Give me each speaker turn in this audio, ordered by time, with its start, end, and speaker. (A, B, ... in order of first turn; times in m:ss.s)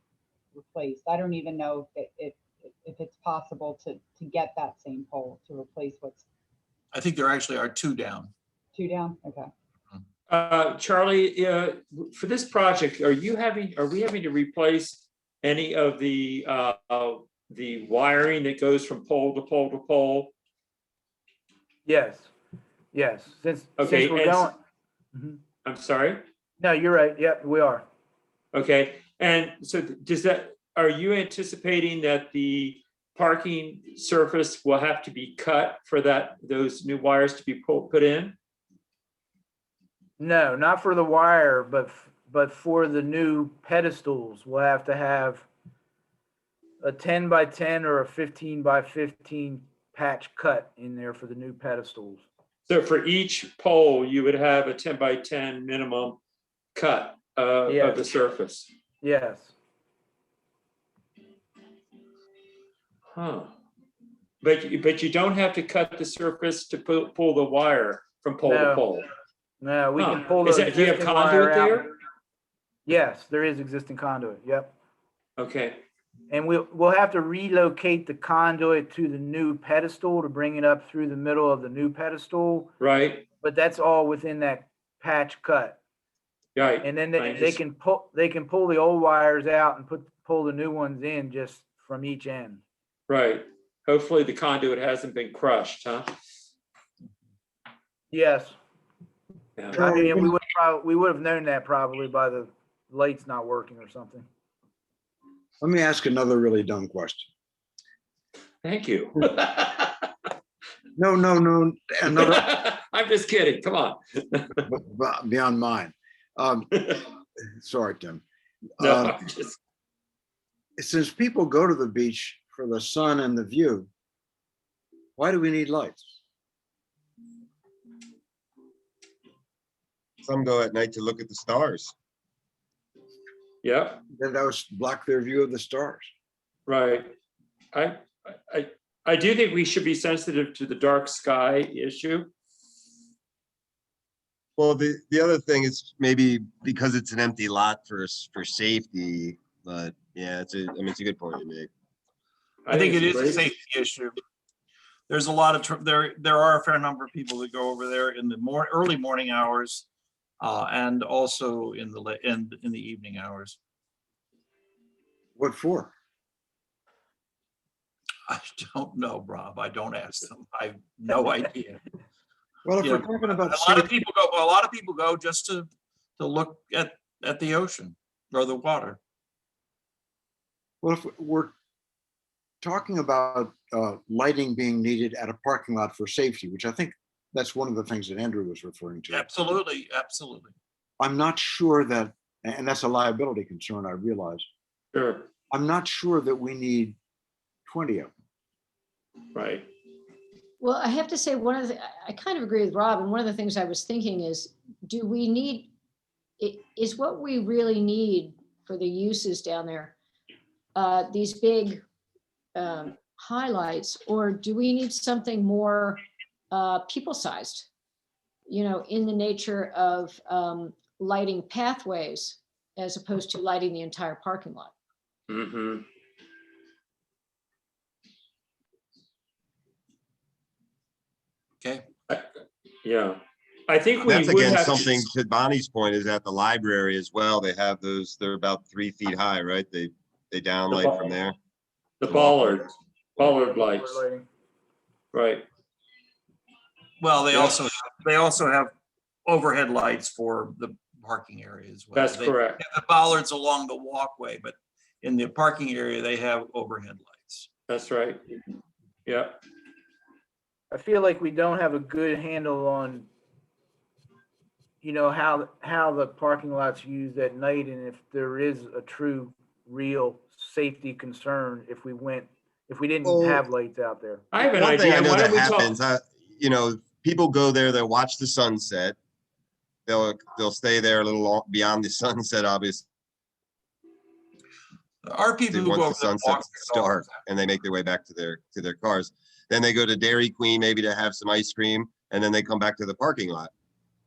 0:00.6-0:06.2 A
0:06.9-0:08.3 B
0:08.7-0:09.5 A
0:10.3-0:20.3 C
0:21.9-0:22.3 D
0:22.9-0:24.6 D
0:23.8-0:24.5 C
0:25.1-0:25.4 D
0:25.6-0:26.2 C
0:26.6-0:27.8 D
0:28.5-0:38.4 C
0:40.2-0:45.5 D
0:46.8-0:52.2 D
0:52.7-0:56.2 C
0:56.8-0:58.7 C
0:57.7-0:58.0 D
0:59.0-0:59.5 D
1:03.1-1:03.5 C
1:04.4-1:09.0 C
1:08.5-1:08.9 D
1:09.6-1:11.9 D
1:10.0-1:11.9 C
1:12.9-1:14.7 D
1:15.4-1:15.8 C
1:16.3-1:22.7 D
1:22.8-1:23.3 C
1:23.4-1:25.8 D
1:26.6-1:27.6 C
1:26.8-1:32.6 D
1:33.1-1:36.1 C
1:38.1-1:38.6 D
1:39.7-1:44.3 D
1:39.7-1:40.4 E
1:45.6-1:47.3 E
1:48.6-1:50.1 C
1:51.0-1:52.5 E
1:52.1-1:54.6 C
1:54.7-1:56.9 E
1:57.5-1:58.2 E
1:58.8-1:59.2 E
1:58.8-1:59.6 C
2:00.8-2:03.9 E
2:05.2-2:06.2 E
2:10.2-2:11.9 F
2:13.6-2:14.0 C
2:14.1-2:16.1 E
2:16.7-2:17.1 C
2:17.7-2:22.3 C
2:24.6-2:31.7 F
2:32.7-2:33.4 C
2:32.7-2:34.1 B
2:35.1-2:39.9 B
2:40.4-2:43.6 B
2:45.4-2:45.9 E
2:48.3-2:51.8 B
2:52.6-2:53.9 E
2:52.8-2:59.0 B
3:00.8-3:01.5 E
3:02.6-3:09.3 E
3:09.1-3:10.5 B
3:11.0-3:14.4 E
3:14.9-3:15.3 C
3:15.5-3:17.0 E
3:17.7-3:18.1 E
3:19.3-3:19.7 C
3:20.6-3:25.7 G
3:26.4-3:29.9 G
3:30.8-3:31.8 G
3:32.6-3:37.7 G
3:38.5-3:44.7 G
3:45.3-3:45.8 C
3:51.6-3:51.9 B
3:52.8-3:55.0 C
3:54.0-4:01.4 F
4:00.7-4:01.2 C
4:02.0-4:04.0 C
4:02.1-4:02.7 F
4:03.2-4:04.2 D
4:05.1-4:05.4 C
4:07.0-4:08.7 B
4:09.3-4:17.5 B
4:11.9-4:12.6 C
4:17.7-4:18.2 C
4:19.1-4:19.4 C
4:20.7-4:23.1 D
4:24.8-4:34.2 D
4:33.0-4:33.4 F
4:34.3-4:35.8 C
4:34.4-4:39.0 F
4:39.9-4:42.8 F
4:45.0-4:47.2 B
4:45.5-4:53.5 F